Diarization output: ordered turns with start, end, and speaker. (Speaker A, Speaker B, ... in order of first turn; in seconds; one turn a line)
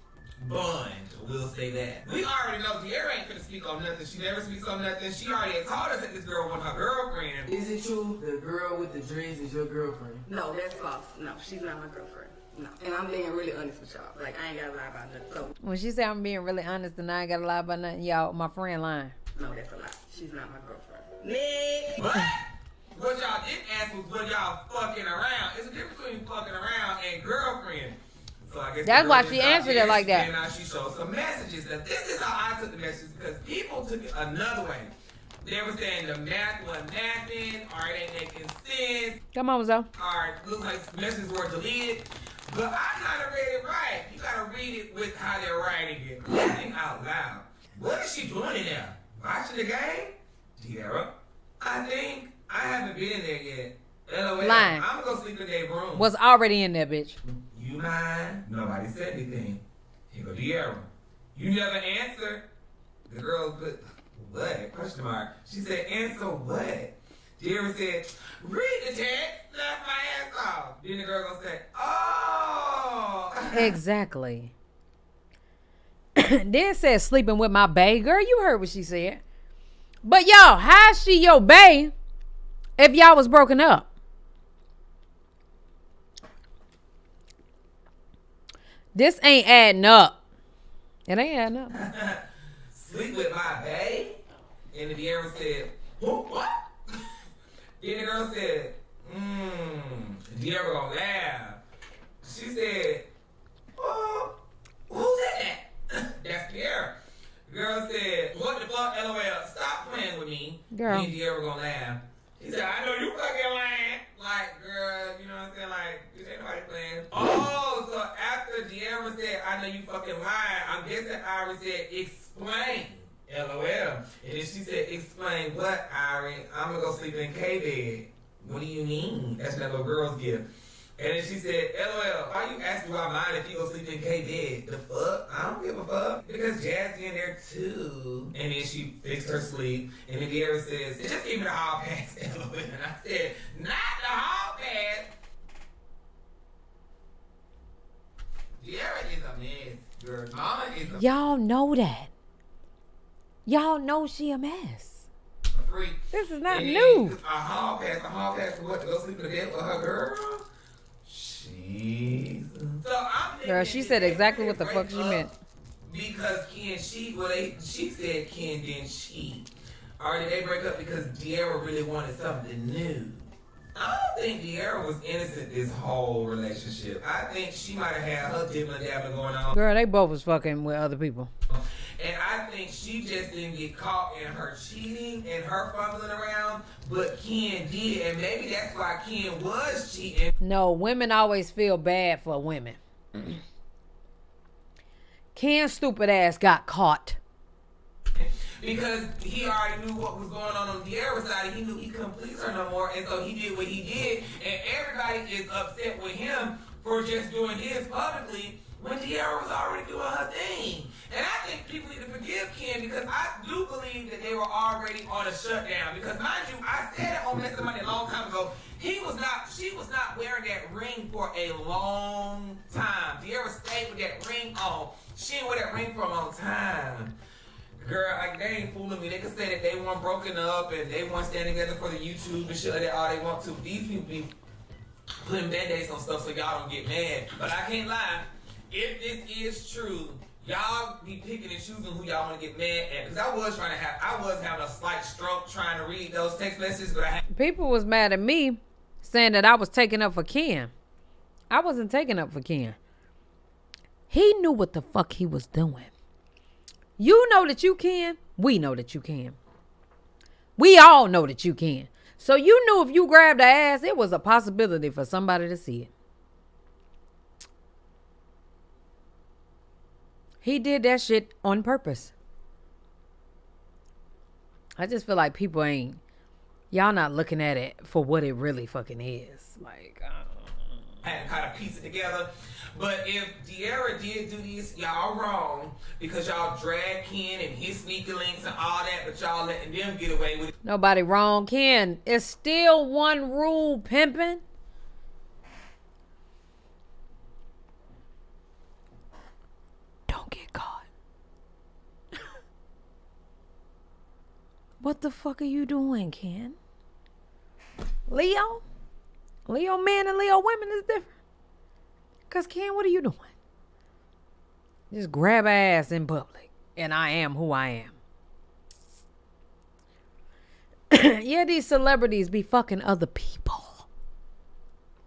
Speaker A: 0.4-7.5
Speaker B: 7.5-9.3
Speaker C: 7.6-10.2
Speaker B: 10.2-15.5
Speaker D: 15.6-19.1
Speaker B: 19.3-22.0
Speaker A: 22.0-34.9
Speaker D: 28.8-30.3
Speaker A: 35.4-39.2
Speaker D: 39.3-39.9
Speaker A: 40.0-56.1
Speaker D: 54.4-54.8
Speaker D: 56.0-57.2
Speaker A: 57.5-62.4
Speaker A: 63.1-73.8
Speaker D: 73.5-74.5
Speaker D: 76.2-79.2
Speaker D: 80.0-81.9
Speaker D: 82.8-83.9
Speaker D: 88.9-90.2
Speaker D: 91.1-91.7
Speaker A: 91.7-92.2
Speaker A: 92.7-94.2
Speaker A: 94.7-97.0
Speaker A: 97.8-101.6
Speaker A: 102.2-103.1
Speaker A: 103.8-104.3
Speaker A: 104.9-107.0
Speaker A: 107.5-130.4
Speaker D: 110.7-111.1
Speaker A: 131.0-145.1
Speaker A: 148.6-151.0
Speaker D: 151.0-152.1
Speaker D: 153.4-155.1
Speaker A: 155.5-160.4
Speaker D: 156.1-157.2
Speaker A: 161.1-165.3
Speaker D: 163.4-165.3
Speaker A: 165.9-169.5
Speaker A: 170.0-179.6
Speaker D: 179.5-181.3
Speaker A: 181.5-190.3
Speaker D: 190.4-193.3
Speaker D: 195.3-197.2
Speaker A: 198.1-227.1
Speaker A: 227.8-234.3
Speaker A: 235.2-247.2
Speaker D: 247.3-250.7
Speaker D: 251.5-252.8
Speaker D: 254.1-255.9
Speaker D: 257.0-259.4
Speaker D: 260.6-265.9
Speaker D: 270.4-272.1
Speaker D: 274.8-276.0
Speaker D: 276.7-280.5
Speaker A: 281.0-290.5
Speaker D: 290.6-294.4
Speaker D: 300.1-300.9
Speaker D: 304.8-306.6
Speaker D: 308.1-308.6
Speaker D: 309.5-311.1
Speaker D: 312.3-313.3
Speaker D: 314.9-318.0
Speaker D: 320.9-323.9